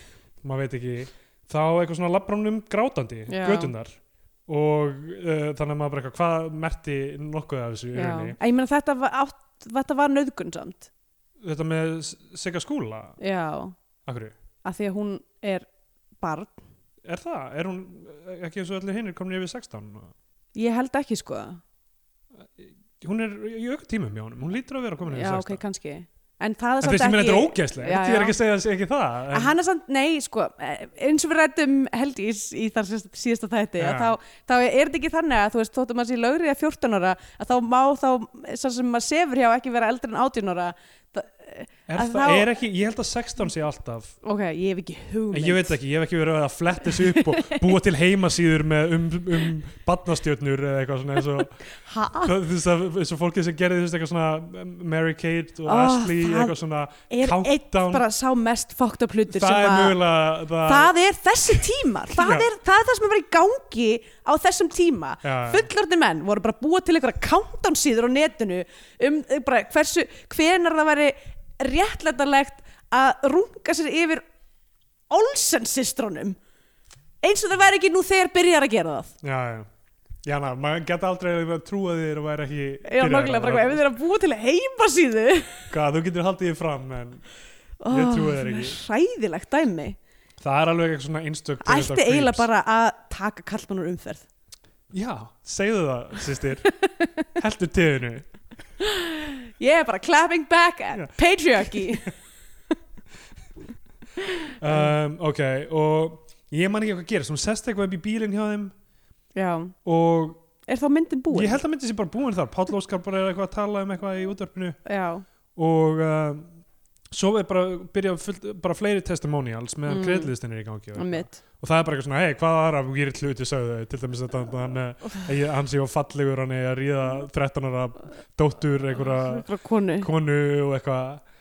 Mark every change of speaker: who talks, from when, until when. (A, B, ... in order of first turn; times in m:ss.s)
0:00.4-0:08.4 A
0:03.3-0:03.7 B
0:07.9-0:10.9 B
0:11.4-0:13.2 A
0:13.2-0:13.8 B
0:14.0-0:14.3 A
0:14.6-0:15.7 B
0:16.2-0:16.6 B
0:17.0-0:20.1 A
0:20.5-0:21.6 B
0:22.4-0:25.6 A
0:25.1-0:28.4 B
0:26.8-0:29.5 A
0:29.3-0:42.5 B
0:33.8-0:34.2 A
0:41.9-0:44.2 A
0:44.2-0:45.7 B
0:45.3-0:51.6 A
0:46.9-0:47.7 B
0:51.6-0:52.3 B
0:52.2-0:58.0 A
0:55.6-0:56.5 B
0:57.1-1:00.0 B
0:59.3-1:00.9 A
1:00.6-1:14.2 B
1:01.5-1:02.5 A
1:05.2-1:05.7 A
1:15.1-1:16.4 B
1:17.2-1:19.1 B
1:19.2-1:19.7 A
1:20.2-1:23.8 A
1:22.8-1:25.7 B
1:25.7-1:27.2 A
1:27.8-1:30.0 B
1:27.9-1:28.8 A
1:30.4-1:32.5 A
1:31.6-1:34.3 B
1:34.9-1:36.7 A
1:36.8-1:37.2 B
1:37.3-1:38.3 A
1:38.8-1:42.1 B
1:40.9-1:42.1 A
1:44.2-1:44.9 B
1:44.6-1:48.7 A
1:49.3-1:49.7 B
1:49.8-1:50.4 A
1:50.6-1:51.6 B
1:51.3-1:54.8 A
1:54.8-1:55.2 B
1:55.5-1:56.5 A
1:57.1-2:09.5 A
1:59.9-2:00.3 B
2:00.9-2:01.4 B
2:09.1-2:10.1 B
2:10.0-2:11.2 A